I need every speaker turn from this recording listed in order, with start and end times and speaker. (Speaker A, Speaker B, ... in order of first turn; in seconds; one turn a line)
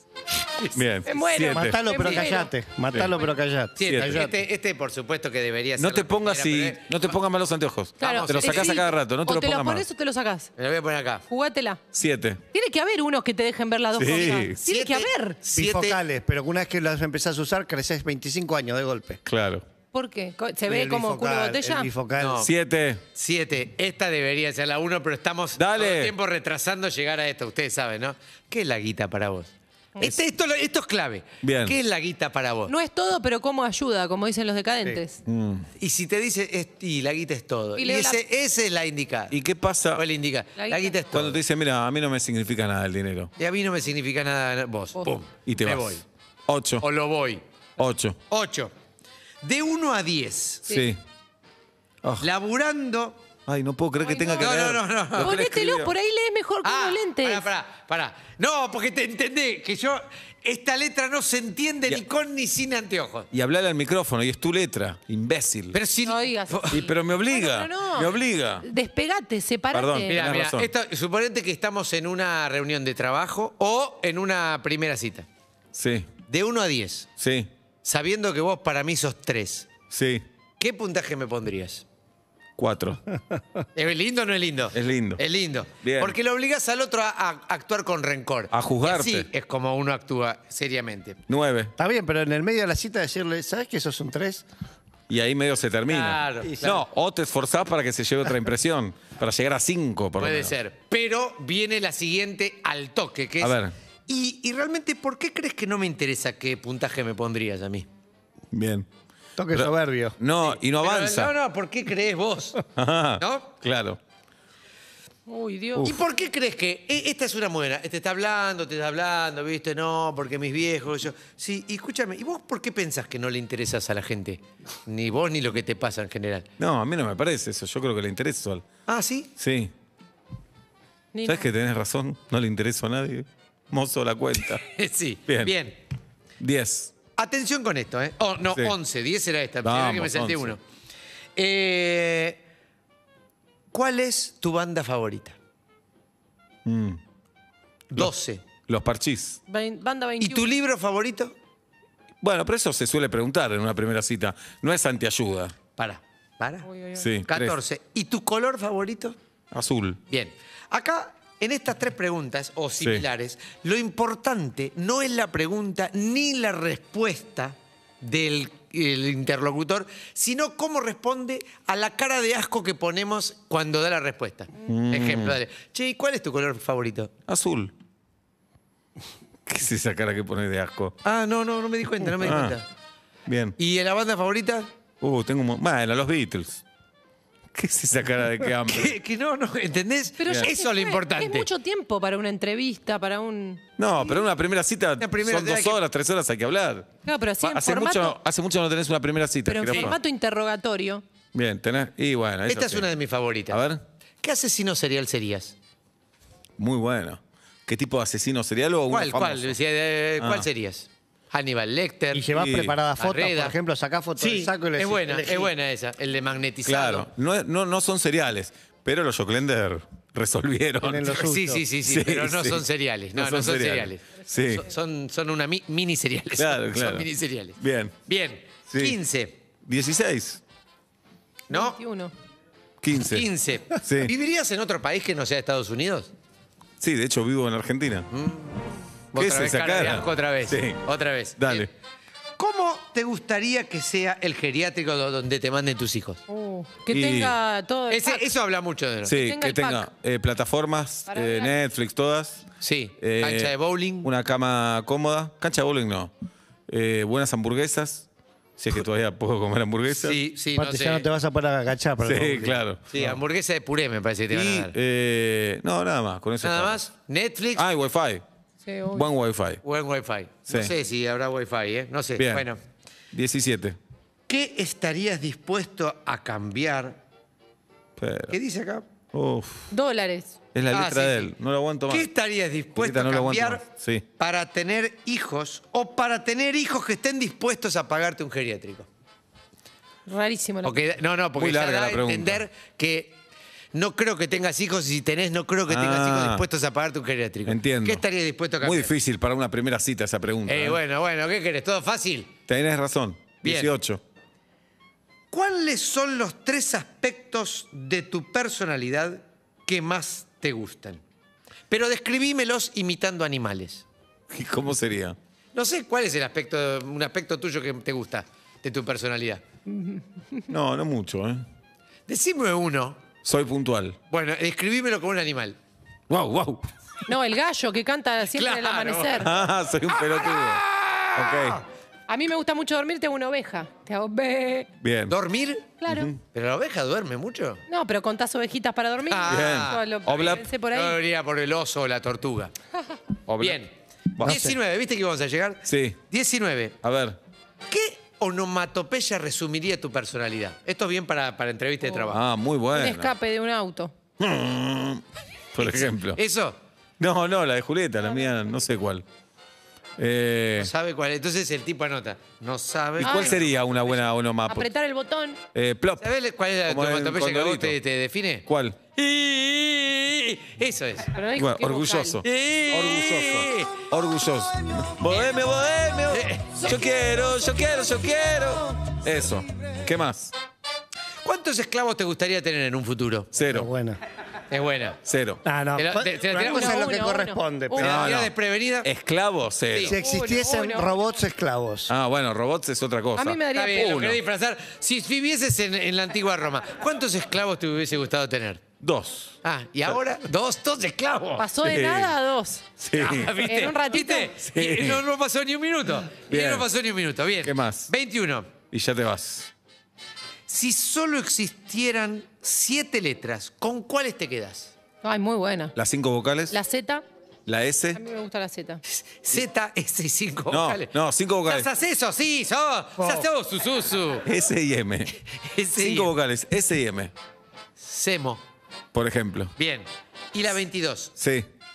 Speaker A: 0.5-0.8
Speaker B: 0.8-1.8
Speaker C: 1.1-2.5
Speaker D: 1.5-4.3
Speaker A: 2.0-2.2
Speaker A: 3.8-6.9
Speaker B: 3.8-4.3
Speaker B: 5.8-9.9
Speaker A: 8.0-8.8
Speaker C: 8.0-10.5
Speaker A: 10.6-11.2
Speaker C: 11.3-11.8
Speaker B: 11.9-12.4
Speaker C: 12.5-15.4
Speaker B: 14.0-14.6
Speaker A: 14.7-16.0
Speaker D: 15.5-19.2
Speaker B: 19.2-19.6
Speaker C: 19.9-21.9
Speaker D: 20.7-22.5
Speaker A: 22.2-22.5
Speaker B: 22.4-23.0
Speaker A: 23.1-32.7
Speaker B: 25.6-26.1
Speaker B: 31.4-31.8
Speaker C: 32.7-35.2
Speaker B: 35.2-35.7
Speaker A: 35.8-39.4
Speaker C: 37.8-38.2
Speaker B: 39.3-40.0
Speaker A: 39.9-41.4
Speaker C: 40.6-41.1
Speaker B: 41.1-43.3
Speaker A: 43.4-46.0
Speaker B: 45.5-46.9
Speaker A: 46.8-47.4
Speaker B: 47.8-48.2
Speaker A: 48.3-48.7
Speaker A: 49.4-50.7
Speaker B: 50.7-51.0
Speaker A: 52.2-53.2
Speaker B: 53.5-56.0
Speaker C: 54.1-54.6
Speaker A: 54.4-55.4
Speaker C: 55.2-57.5
Speaker A: 56.6-63.3
Speaker B: 63.3-65.8
Speaker A: 65.7-66.8
Speaker C: 66.0-70.2
Speaker B: 66.7-68.7
Speaker B: 69.7-70.7
Speaker A: 70.1-75.3
Speaker B: 75.8-76.1
Speaker A: 76.3-77.1
Speaker B: 77.2-77.5
Speaker A: 77.8-79.7
Speaker B: 79.9-80.2
Speaker A: 80.6-81.8
Speaker B: 82.6-83.0
Speaker A: 83.8-91.2
Speaker B: 84.7-85.2
Speaker B: 85.8-86.2
Speaker B: 88.5-89.3
Speaker B: 91.3-91.7
Speaker D: 91.8-94.5
Speaker B: 95.1-100.5
Speaker A: 95.9-96.8
Speaker A: 100.2-107.9
Speaker B: 103.4-103.7
Speaker B: 108.5-108.9
Speaker D: 109.4-110.2
Speaker B: 109.5-111.3
Speaker A: 110.4-112.6
Speaker B: 112.8-114.0
Speaker A: 113.2-113.5
Speaker C: 115.3-115.9
Speaker B: 115.8-116.0
Speaker A: 115.8-126.5
Speaker B: 126.6-128.6
Speaker A: 128.9-129.3
Speaker B: 129.4-129.7
Speaker C: 131.1-131.5
Speaker B: 131.2-134.6
Speaker A: 134.5-135.8
Speaker B: 135.3-135.5
Speaker B: 136.4-136.9
Speaker A: 137.2-140.6
Speaker B: 139.6-140.5
Speaker A: 141.4-142.4
Speaker A: 143.7-145.4
Speaker B: 146.7-147.0
Speaker A: 147.9-148.4
Speaker B: 148.7-149.4
Speaker C: 149.5-150.5
Speaker A: 150.2-151.3
Speaker B: 152.2-155.5
Speaker A: 155.8-156.7
Speaker C: 156.7-157.0
Speaker B: 157.0-157.6
Speaker A: 157.3-159.2
Speaker B: 159.5-160.0
Speaker A: 160.1-177.1
Speaker B: 162.8-163.1
Speaker B: 174.7-175.4
Speaker B: 177.3-177.7
Speaker B: 179.5-181.0
Speaker A: 181.0-182.7
Speaker B: 182.2-182.6
Speaker B: 183.3-183.6
Speaker A: 183.6-184.7
Speaker B: 185.0-186.6
Speaker B: 187.5-188.9
Speaker A: 188.6-191.5
Speaker C: 190.2-193.6
Speaker B: 193.8-196.9
Speaker A: 195.0-195.8
Speaker C: 197.0-198.2
Speaker B: 197.4-200.0
Speaker C: 199.4-201.0
Speaker A: 199.7-199.9
Speaker B: 201.3-202.9
Speaker A: 202.5-203.6
Speaker B: 203.5-203.8
Speaker A: 204.2-205.6
Speaker B: 206.6-209.6
Speaker A: 208.9-212.3
Speaker B: 210.2-210.5
Speaker D: 212.1-215.5
Speaker B: 212.3-212.8
Speaker A: 212.9-213.6
Speaker A: 214.2-217.1
Speaker B: 216.6-221.1
Speaker D: 220.8-221.6
Speaker A: 221.1-229.4
Speaker B: 221.8-224.6
Speaker B: 226.3-227.1
Speaker B: 227.6-227.9
Speaker B: 228.7-229.0
Speaker B: 229.7-230.4
Speaker A: 231.5-231.8
Speaker C: 231.5-232.1
Speaker B: 232.8-234.1
Speaker A: 233.0-236.1
Speaker B: 236.8-238.1
Speaker A: 238.1-241.7
Speaker B: 239.2-240.8
Speaker B: 241.4-241.7
Speaker A: 242.4-246.2
Speaker C: 246.3-248.3
Speaker B: 246.9-247.4
Speaker A: 247.9-249.1
Speaker B: 249.0-252.4
Speaker C: 249.1-249.9
Speaker C: 251.1-251.6
Speaker A: 252.6-254.1
Speaker B: 253.0-256.1
Speaker B: 256.7-260.2
Speaker A: 259.9-261.1
Speaker D: 260.5-262.6
Speaker B: 262.0-262.8
Speaker A: 262.9-264.8
Speaker B: 264.3-266.8
Speaker A: 266.4-267.6
Speaker B: 267.6-268.2
Speaker C: 268.6-269.1
Speaker B: 268.9-269.6
Speaker A: 269.6-272.6
Speaker B: 270.5-270.8
Speaker B: 272.2-272.5
Speaker B: 273.1-273.8
Speaker A: 274.3-277.0
Speaker B: 278.0-278.4
Speaker A: 278.3-278.9
Speaker B: 279.1-279.7
Speaker C: 279.7-280.3
Speaker B: 280.5-282.1
Speaker A: 280.7-281.4
Speaker A: 281.9-283.6
Speaker B: 282.8-284.1
Speaker A: 284.2-288.9
Speaker C: 290.1-290.8
Speaker A: 290.6-293.2
Speaker B: 291.4-292.4
Speaker A: 293.7-298.9
Speaker B: 295.7-296.4
Speaker B: 297.5-298.0
Speaker B: 298.6-300.8
Speaker A: 300.5-302.3
Speaker B: 302.5-304.0
Speaker A: 303.4-303.7
Speaker A: 305.3-311.0
Speaker A: 311.7-313.9
Speaker B: 314.3-315.2
Speaker A: 315.5-319.4
Speaker B: 320.5-321.4
Speaker A: 322.1-323.0
Speaker B: 323.2-324.0
Speaker A: 324.1-325.6
Speaker B: 326.1-326.6
Speaker C: 327.1-329.3
Speaker A: 328.3-329.4
Speaker B: 329.2-330.6
Speaker A: 329.9-331.5
Speaker B: 331.1-331.6
Speaker C: 332.1-334.7
Speaker B: 334.8-335.1
Speaker A: 335.1-335.8
Speaker C: 335.8-336.1
Speaker B: 335.9-336.2
Speaker A: 336.3-337.6
Speaker C: 337.7-341.0
Speaker A: 339.1-342.5
Speaker B: 339.3-340.5
Speaker B: 343.3-343.6
Speaker A: 343.4-343.7
Speaker B: 344.2-344.5
Speaker D: 344.2-344.6
Speaker A: 344.2-346.8
Speaker B: 345.6-346.0
Speaker B: 346.8-347.2
Speaker A: 347.7-352.2
Speaker B: 352.1-353.1
Speaker C: 352.7-353.9
Speaker B: 354.2-355.0
Speaker B: 355.5-356.2
Speaker A: 355.6-356.6
Speaker B: 357.0-359.1
Speaker B: 360.0-360.7
Speaker A: 360.6-364.0
Speaker B: 363.0-364.7
Speaker C: 363.0-363.4
Speaker C: 364.5-365.4
Speaker B: 365.5-366.1
Speaker A: 366.0-371.1
Speaker B: 366.6-367.8
Speaker B: 368.5-368.8
Speaker C: 371.1-372.2
Speaker B: 371.4-380.3
Speaker A: 372.2-373.8
Speaker A: 375.1-375.3
Speaker A: 376.1-376.7
Speaker A: 381.2-383.3
Speaker B: 383.3-383.7
Speaker D: 383.5-384.0
Speaker A: 384.5-385.0
Speaker B: 385.1-385.4
Speaker D: 385.4-388.0
Speaker A: 385.8-386.9
Speaker C: 386.4-387.4
Speaker A: 387.7-388.9
Speaker B: 387.8-388.3
Speaker B: 388.8-390.0
Speaker A: 389.7-390.0
Speaker D: 389.8-391.9
Speaker C: 389.9-391.0
Speaker B: 391.9-394.2
Speaker C: 393.1-394.0
Speaker A: 393.5-398.6
Speaker B: 398.8-399.9
Speaker A: 399.4-401.5
Speaker C: 401.4-402.7
Speaker B: 401.6-402.1
Speaker B: 402.8-403.4
Speaker A: 402.9-408.5
Speaker C: 403.3-404.3
Speaker B: 404.4-405.0
Speaker B: 406.3-406.7
Speaker B: 407.4-407.9
Speaker B: 408.7-409.5
Speaker A: 410.5-414.7
Speaker C: 415.0-415.8
Speaker B: 415.8-416.6
Speaker C: 416.5-417.0
Speaker B: 417.5-418.0
Speaker C: 417.9-418.8
Speaker A: 418.9-420.9
Speaker B: 420.5-421.7
Speaker A: 421.5-424.3
Speaker B: 424.2-425.1
Speaker A: 425.3-426.1
Speaker B: 425.7-427.1
Speaker A: 427.8-428.4
Speaker B: 428.9-429.5
Speaker A: 429.6-431.1
Speaker B: 431.2-431.5